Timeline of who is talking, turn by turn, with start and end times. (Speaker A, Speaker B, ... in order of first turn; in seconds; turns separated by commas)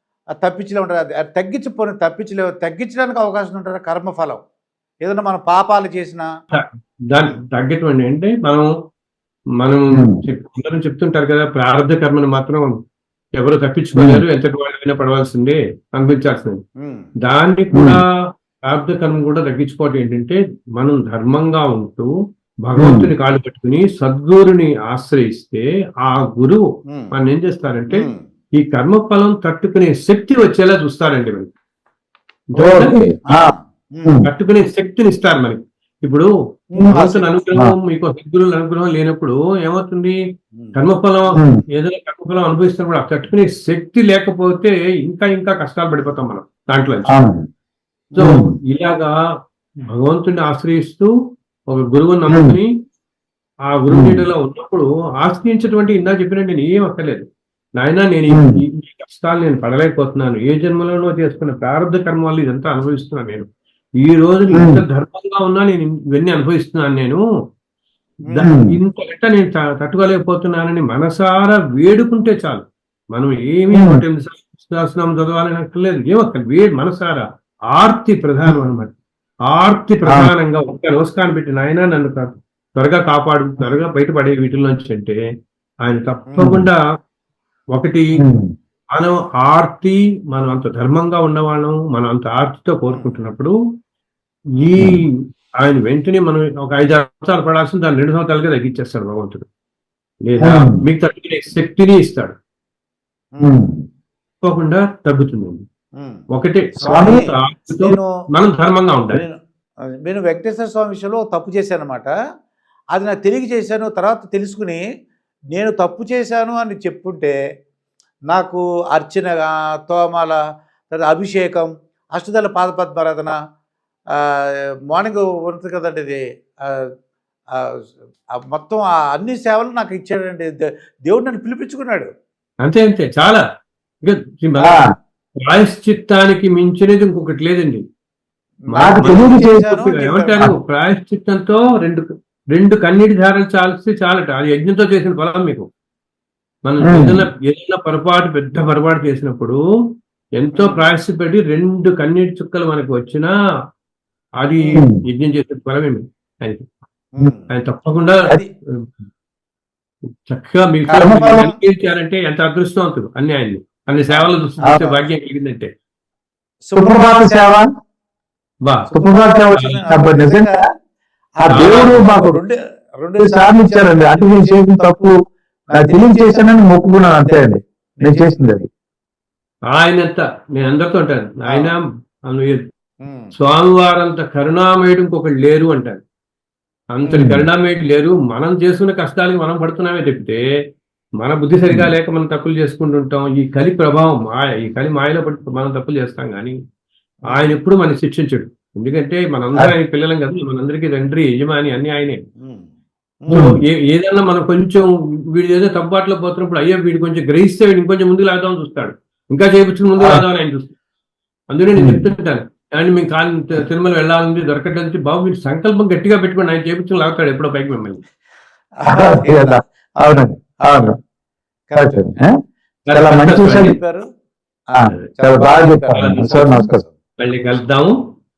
Speaker A: 0.4-4.4, Speaker A: 5.0-6.3, Speaker B: 6.5-8.7, Speaker B: 9.6-12.7, Speaker C: 9.9-10.2, Speaker B: 13.4-16.6, Speaker C: 13.9-14.2, Speaker A: 16.8-17.1, Speaker B: 17.2-18.0, Speaker C: 17.7-18.0, Speaker B: 18.7-22.1, Speaker B: 22.7-28.1, Speaker C: 22.8-23.1, Speaker A: 27.9-28.2, Speaker B: 28.6-31.5, Speaker B: 32.5-33.0, Speaker C: 32.6-33.5, Speaker A: 33.3-34.2, Speaker C: 34.0-34.3, Speaker B: 34.2-36.3, Speaker A: 36.7-37.4, Speaker B: 36.9-40.1, Speaker B: 40.7-47.1, Speaker C: 47.1-47.5, Speaker B: 48.2-49.1, Speaker C: 48.2-48.5, Speaker B: 49.9-51.1, Speaker B: 51.7-52.7, Speaker C: 52.3-52.6, Speaker B: 53.7-57.2, Speaker C: 53.9-54.2, Speaker B: 57.8-63.5, Speaker C: 58.3-58.6, Speaker B: 64.0-67.2, Speaker C: 64.5-64.8, Speaker B: 68.3-78.9, Speaker C: 68.4-68.7, Speaker C: 73.7-74.0, Speaker B: 79.5-85.2, Speaker C: 80.0-80.3, Speaker B: 85.8-86.8, Speaker C: 86.4-86.7, Speaker B: 87.7-88.1, Speaker C: 88.2-88.5, Speaker B: 88.9-93.5, Speaker B: 94.6-95.0, Speaker B: 95.6-99.5, Speaker B: 100.3-102.3, Speaker C: 100.4-100.8, Speaker C: 103.4-103.8, Speaker B: 104.4-105.6, Speaker B: 106.3-109.2, Speaker A: 106.8-108.1, Speaker C: 106.9-107.2, Speaker A: 110.0-112.1, Speaker A: 112.9-114.8, Speaker A: 115.5-117.3, Speaker A: 118.3-120.4, Speaker A: 120.9-123.3, Speaker A: 124.9-126.8, Speaker A: 128.4-132.1, Speaker B: 132.6-133.4, Speaker B: 134.0-134.7, Speaker C: 134.6-134.9, Speaker B: 135.4-137.8, Speaker A: 138.7-140.5, Speaker B: 138.7-145.7, Speaker C: 138.8-139.7, Speaker B: 146.7-149.6, Speaker C: 146.8-147.2, Speaker B: 150.4-153.3, Speaker A: 150.6-150.8, Speaker B: 154.4-156.7, Speaker A: 157.2-157.5, Speaker B: 157.5-158.3, Speaker B: 160.3-165.7, Speaker A: 160.9-161.5, Speaker C: 160.9-161.5, Speaker A: 164.1-165.0, Speaker A: 166.7-167.6, Speaker C: 166.8-167.7, Speaker C: 168.9-170.6, Speaker A: 168.9-170.6, Speaker B: 169.5-169.8, Speaker A: 171.4-175.1, Speaker C: 171.4-172.4, Speaker B: 171.5-172.1, Speaker C: 173.2-175.1, Speaker A: 175.7-176.5, Speaker C: 175.7-178.7, Speaker A: 178.0-178.5, Speaker B: 179.7-182.6, Speaker A: 181.5-181.7, Speaker A: 183.0-183.3, Speaker B: 183.3-186.0, Speaker B: 186.9-190.4, Speaker C: 187.1-187.4, Speaker B: 191.2-196.6, Speaker B: 197.3-202.2, Speaker A: 202.4-202.7, Speaker B: 203.3-210.7, Speaker B: 211.5-218.0, Speaker C: 211.8-212.1, Speaker A: 218.8-220.9, Speaker C: 218.9-220.9, Speaker A: 221.7-222.1, Speaker C: 221.8-222.3, Speaker B: 222.9-223.8, Speaker C: 222.9-223.8, Speaker A: 223.4-224.0, Speaker A: 224.7-226.9, Speaker C: 224.8-226.8, Speaker B: 225.9-226.5, Speaker B: 227.2-227.9